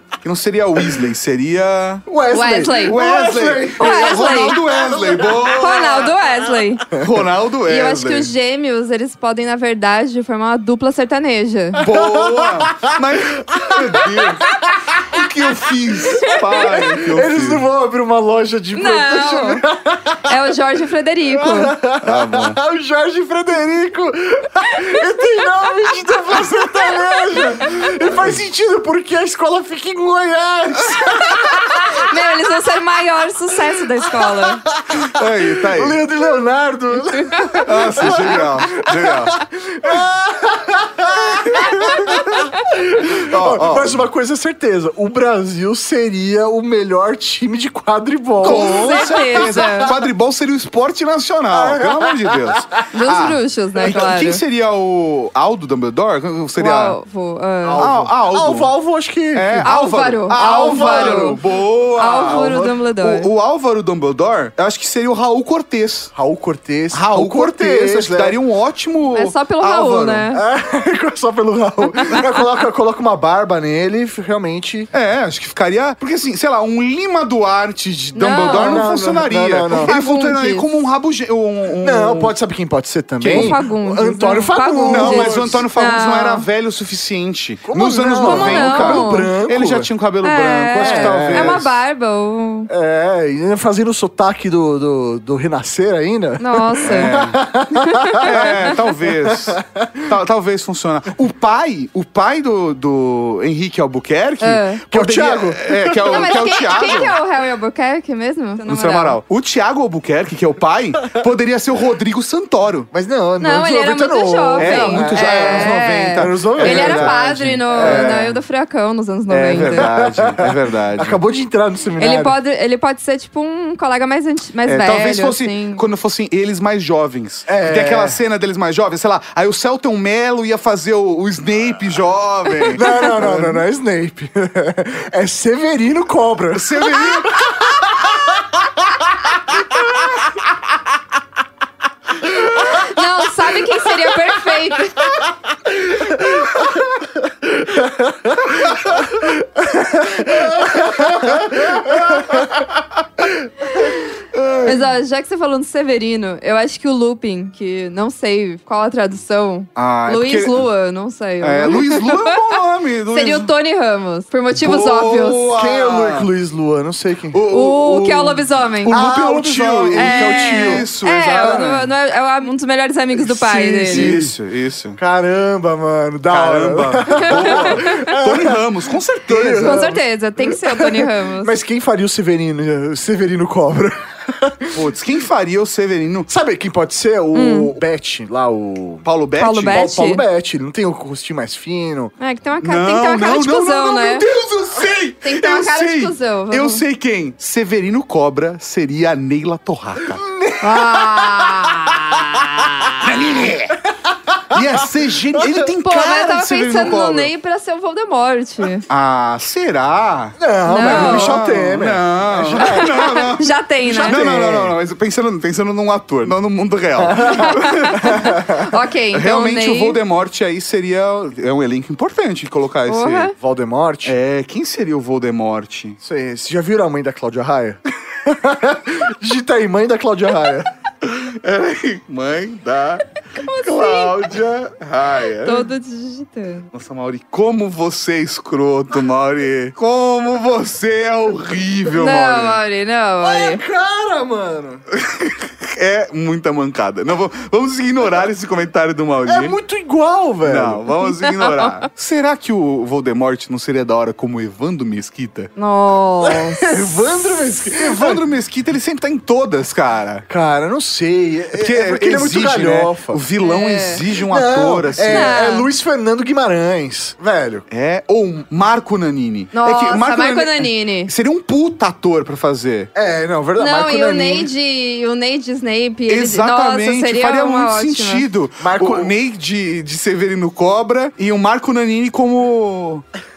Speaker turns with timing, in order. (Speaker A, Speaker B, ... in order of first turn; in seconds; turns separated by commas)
Speaker A: 0.2-2.0, Speaker B: 2.1-5.9, Speaker C: 2.3-3.0, Speaker A: 2.8-6.1, Speaker C: 3.8-4.6, Speaker C: 5.6-6.9, Speaker A: 7.0-8.3, Speaker C: 7.7-11.8, Speaker B: 11.8-12.9, Speaker A: 11.8-17.6, Speaker B: 13.5-15.2, Speaker C: 16.1-16.4, Speaker B: 16.5-20.4, Speaker C: 18.8-19.6, Speaker C: 20.3-21.8, Speaker B: 21.3-31.9, Speaker A: 22.0-22.6, Speaker C: 31.5-34.6, Speaker B: 34.2-50.1, Speaker A: 35.1-36.0, Speaker A: 37.6-39.4, Speaker A: 41.6-42.4, Speaker A: 43.2-44.0, Speaker C: 48.4-49.9, Speaker A: 48.4-57.0, Speaker B: 51.5-52.6, Speaker C: 52.9-54.4, Speaker C: 56.6-57.9, Speaker B: 57.6-59.7, Speaker A: 57.8-58.7, Speaker A: 59.3-66.1, Speaker C: 59.6-61.4, Speaker B: 60.3-61.5, Speaker C: 62.0-63.3, Speaker B: 62.1-62.8, Speaker B: 66.1-68.4, Speaker A: 66.9-70.3, Speaker C: 69.1-70.4, Speaker B: 70.3-74.9, Speaker C: 72.0-72.3, Speaker A: 74.9-82.3, Speaker C: 78.2-78.9, Speaker B: 78.5-79.9, Speaker C: 79.8-80.7, Speaker B: 81.8-85.7, Speaker A: 83.2-83.6, Speaker C: 83.2-86.4, Speaker A: 84.9-91.7, Speaker B: 87.7-89.9, Speaker C: 88.2-89.3, Speaker C: 90.2-92.7, Speaker B: 90.8-91.7, Speaker B: 92.7-100.1, Speaker C: 96.4-97.2, Speaker A: 96.8-97.4, Speaker C: 97.9-98.3, Speaker A: 98.2-107.2, Speaker C: 104.4-104.8, Speaker B: 104.9-106.5, Speaker C: 106.1-109.2, Speaker A: 108.7-112.9, Speaker B: 112.9-118.3, Speaker C: 113.4-119.9, Speaker A: 114.6-118.3, Speaker B: 119.3-122.4, Speaker A: 119.4-121.2, Speaker C: 122.0-125.8, Speaker A: 124.7-133.6, Speaker B: 127.5-128.2, Speaker B: 132.7-138.4, Speaker A: 136.5-137.6, Speaker C: 142.5-145.2, Speaker B: 147.8-148.3, Speaker B: 149.1-152.4, Speaker A: 151.8-152.3, Speaker A: 154.3-154.8, Speaker C: 154.7-162.4, Speaker A: 159.8-160.7, Speaker A: 161.4-163.5, Speaker C: 163.1-165.5, Speaker A: 164.6-166.3, Speaker B: 165.5-167.4, Speaker A: 167.3-171.9, Speaker C: 167.5-169.0, Speaker B: 168.8-170.9, Speaker C: 170.0-174.1, Speaker B: 171.4-171.7, Speaker B: 173.3-174.3, Speaker A: 173.6-175.0, Speaker B: 175.0-178.6, Speaker A: 176.3-179.9, Speaker C: 177.3-178.0, Speaker B: 179.3-184.8, Speaker C: 179.6-181.6, Speaker A: 184.7-186.3, Speaker B: 186.3-189.1, Speaker C: 187.3-187.7, Speaker A: 189.0-189.8, Speaker C: 189.4-190.2, Speaker B: 189.6-192.1, Speaker C: 192.2-194.2, Speaker A: 192.6-200.2, Speaker C: 195.2-196.8, Speaker B: 200.1-201.5, Speaker C: 200.6-202.0, Speaker A: 202.1-203.8, Speaker B: 203.0-203.5, Speaker A: 204.5-207.3, Speaker C: 205.8-208.8, Speaker A: 208.9-218.4, Speaker B: 210.4-213.4, Speaker C: 210.7-211.4, Speaker C: 212.7-214.2, Speaker B: 213.9-214.7, Speaker B: 217.0-217.5, Speaker C: 217.3-220.0, Speaker B: 218.0-218.5, Speaker A: 219.1-223.3, Speaker C: 222.9-223.3, Speaker B: 223.4-224.2, Speaker A: 224.1-226.0, Speaker B: 226.0-230.7, Speaker A: 231.0-235.7, Speaker C: 233.3-234.2, Speaker C: 235.4-236.7, Speaker A: 236.7-242.6, Speaker C: 241.9-243.6, Speaker B: 243.2-244.8, Speaker A: 244.9-249.6, Speaker B: 249.3-250.9, Speaker A: 250.4-255.5, Speaker C: 251.2-251.7, Speaker C: 255.6-256.8, Speaker B: 256.2-258.2, Speaker A: 257.6-260.3, Speaker B: 260.3-263.2, Speaker A: 261.5-265.3, Speaker C: 263.4-264.0, Speaker B: 264.3-267.6, Speaker C: 265.1-265.7, Speaker A: 267.7-272.9, Speaker C: 269.5-271.1, Speaker B: 272.9-274.5, Speaker C: 273.6-278.2, Speaker A: 276.1-283.0, Speaker B: 278.6-279.1